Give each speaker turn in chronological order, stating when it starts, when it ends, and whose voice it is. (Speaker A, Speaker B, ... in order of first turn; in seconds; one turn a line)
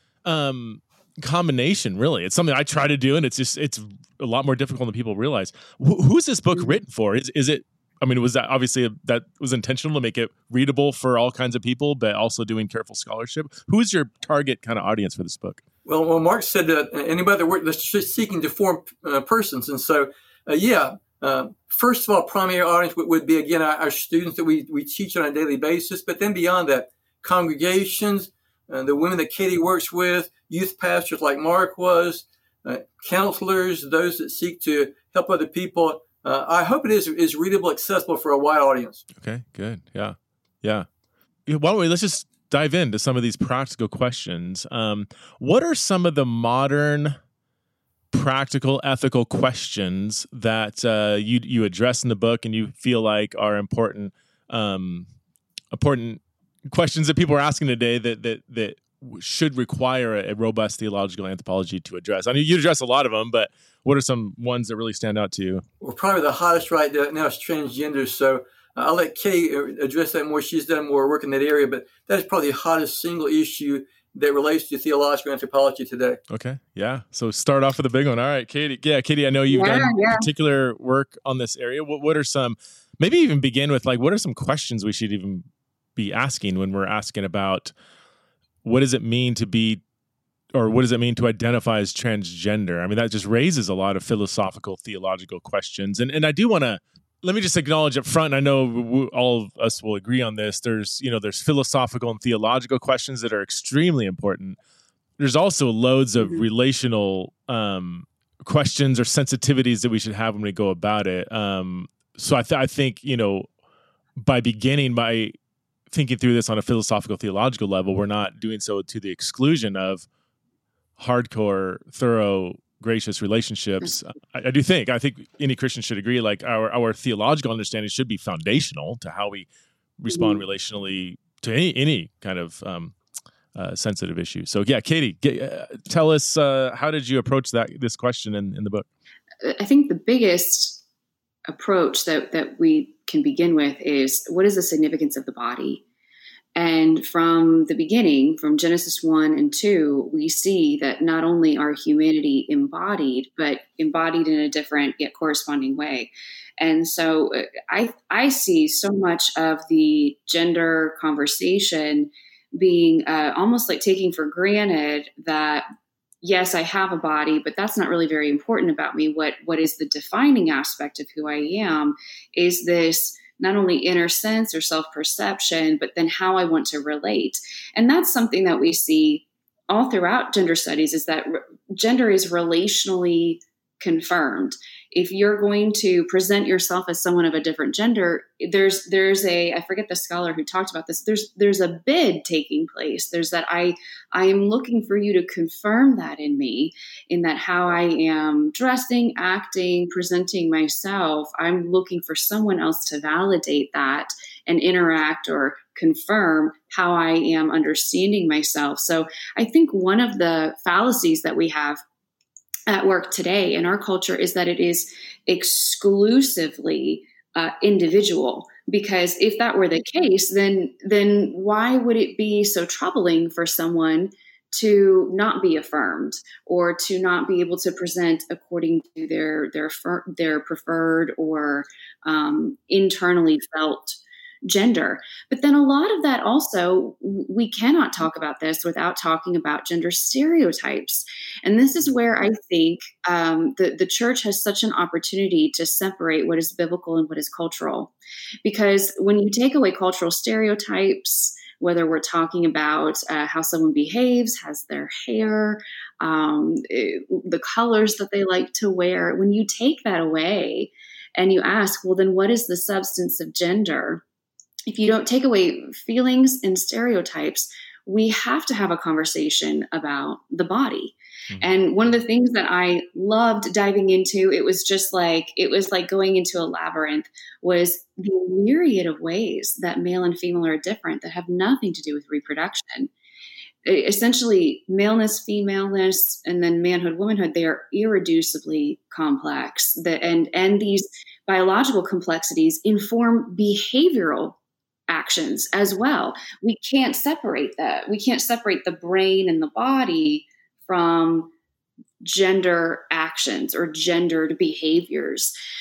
Speaker A: 0.2-15.6
Speaker B: 15.8-39.0
Speaker A: 39.2-40.9
Speaker A: 41.5-47.2
Speaker A: 48.1-55.1
Speaker A: 55.7-65.6
Speaker B: 65.8-76.2
Speaker A: 76.3-87.7
Speaker C: 79.5-80.3
Speaker A: 88.6-89.8
Speaker A: 90.5-104.6
Speaker A: 105.2-113.5
Speaker C: 106.2-106.5
Speaker A: 114.2-115.3
Speaker A: 115.9-120.1
Speaker A: 121.0-129.5
Speaker A: 130.0-133.0
Speaker C: 130.1-130.4
Speaker A: 133.5-138.9
Speaker C: 139.4-140.8
Speaker C: 141.5-145.8
Speaker C: 146.6-165.6
Speaker C: 166.2-211.8
Speaker C: 212.7-264.0
Speaker C: 264.7-282.9
Speaker A: 271.3-271.5
Speaker C: 283.6-294.4
Speaker C: 294.9-301.3
Speaker C: 302.0-305.3